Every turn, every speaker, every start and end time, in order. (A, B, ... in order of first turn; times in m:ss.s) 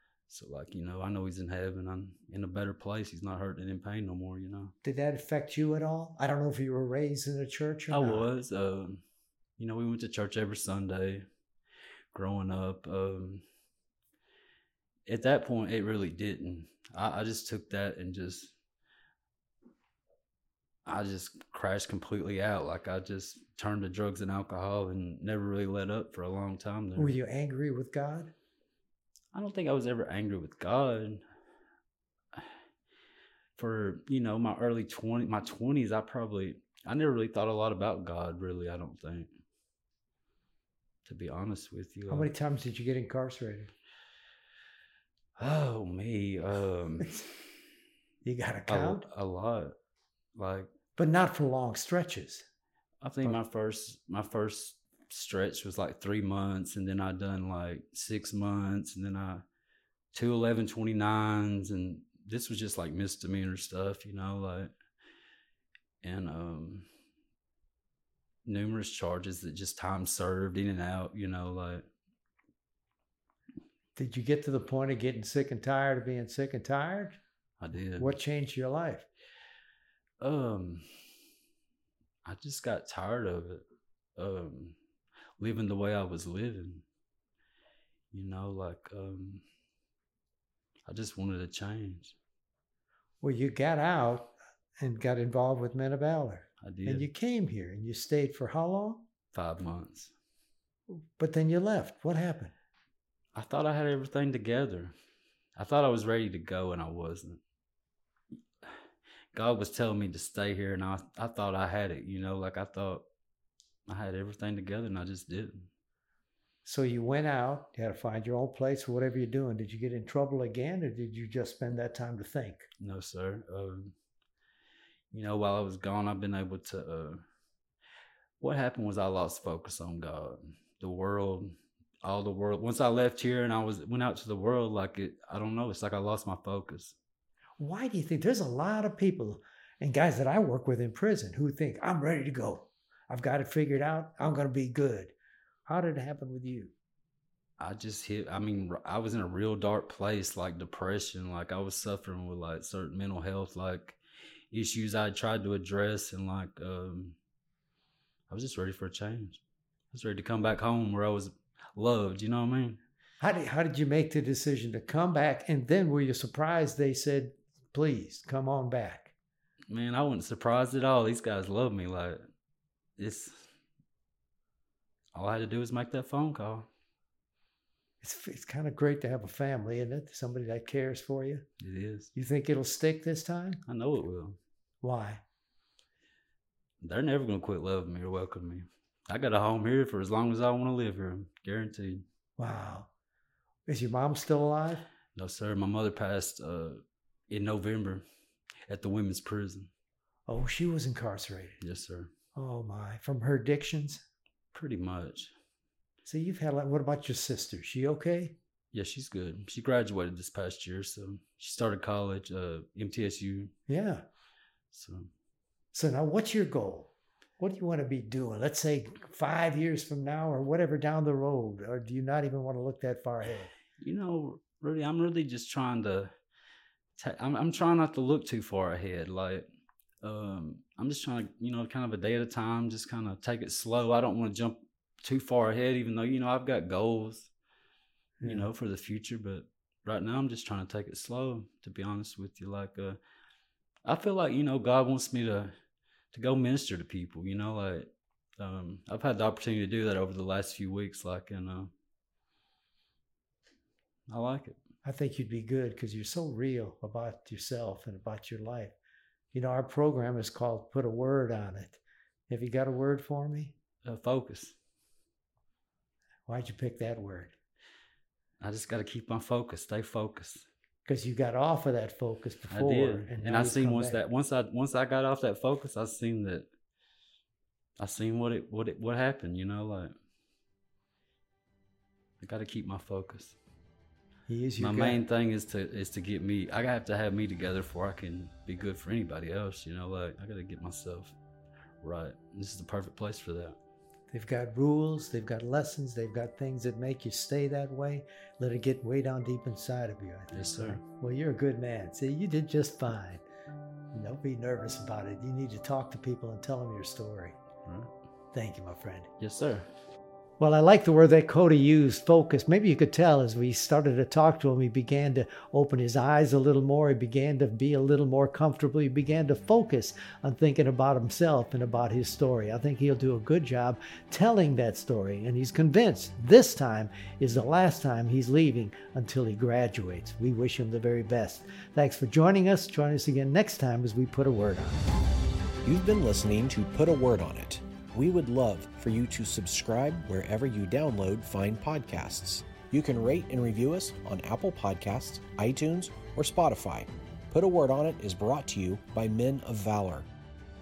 0:00.3-0:04.7 A
0:04.8-0:08.3 B
0:07.9-0:09.0 A
0:09.6-0:11.2 A
0:12.1-0:13.4 A
0:15.1-0:18.5 A
0:20.8-0:27.1 A
0:27.0-0:28.3 B
0:29.3-0:31.2 A
0:33.6-0:39.3 A
0:41.0-0:42.3 A
0:42.1-0:43.7 B
0:45.4-0:47.3 A
0:48.2-0:49.0 B
0:48.7-0:49.7 A
0:50.4-0:50.7 A
0:51.0-0:52.4 B
0:53.0-0:59.4 A
1:00.1-1:04.7 A
1:06.0-1:06.8 A
1:08.4-1:11.8 A
1:13.9-1:17.2 B
1:17.6-1:18.2 A
1:18.0-1:19.1 B
1:20.2-1:20.8 A
1:22.2-1:23.6 A
1:24.2-1:24.7 A
1:25.4-1:26.8 A
1:28.1-1:29.4 A
1:30.9-1:32.1 A
1:33.2-1:39.0 B
1:36.6-1:37.1 A
1:39.3-1:40.1 A
1:40.9-1:42.5 B
1:43.3-1:44.9 A
1:45.6-1:47.4 A
1:49.3-1:53.0 A
1:53.9-1:55.7 A
1:56.6-2:02.7 B
2:02.8-2:03.9 A
2:05.1-2:07.2 A
2:08.4-2:11.5 A
2:12.0-2:16.9 A
2:17.6-2:25.1 B
2:25.6-2:26.7 B
2:27.6-2:34.0 A
2:34.5-2:37.2 A
2:38.3-2:39.4 A
2:39.9-2:42.8 A
2:43.2-2:49.1 B
2:49.7-2:52.2 A
2:53.0-2:53.5 A
2:55.1-2:56.7 A
2:58.0-3:01.4 B
3:01.6-3:02.1 A
3:02.1-3:03.6 B
3:03.6-3:04.4 A
3:04.8-3:05.2 B
3:06.8-3:12.0 A
3:12.4-3:12.9 B
3:13.7-3:14.8 B
3:15.1-3:18.0 A
3:18.7-3:19.7 A
3:20.3-3:21.6 B
3:21.6-3:22.1 A
3:22.3-3:24.0 B
3:24.5-3:25.3 A
3:26.0-3:28.3 B
3:28.7-3:33.5 A
3:33.7-3:34.0 B
3:34.7-3:35.1 A
3:35.7-3:43.5 B
3:43.8-3:46.1 A
3:47.0-3:49.4 A
3:50.0-3:57.3 A
3:58.2-3:58.5 B
3:58.2-4:03.0 A
4:03.8-4:05.5 A
4:06.1-4:11.7 A
4:14.1-4:14.6 A
4:14.8-4:18.7 B
4:19.3-4:23.5 B
4:23.8-4:24.5 A
4:26.3-4:27.3 B
4:28.4-4:30.4 A
4:30.8-4:34.0 B
4:32.5-4:36.5 A
4:37.8-4:39.9 A
4:42.2-4:43.4 A
4:44.3-4:45.0 B
4:44.6-4:51.1 A
4:51.8-4:53.6 A
4:54.1-5:03.2 B
5:00.3-5:00.8 A
5:03.9-5:07.4 B
5:08.3-5:09.1 B
5:09.2-5:09.6 A
5:10.4-5:34.8 B
5:35.6-5:50.1 C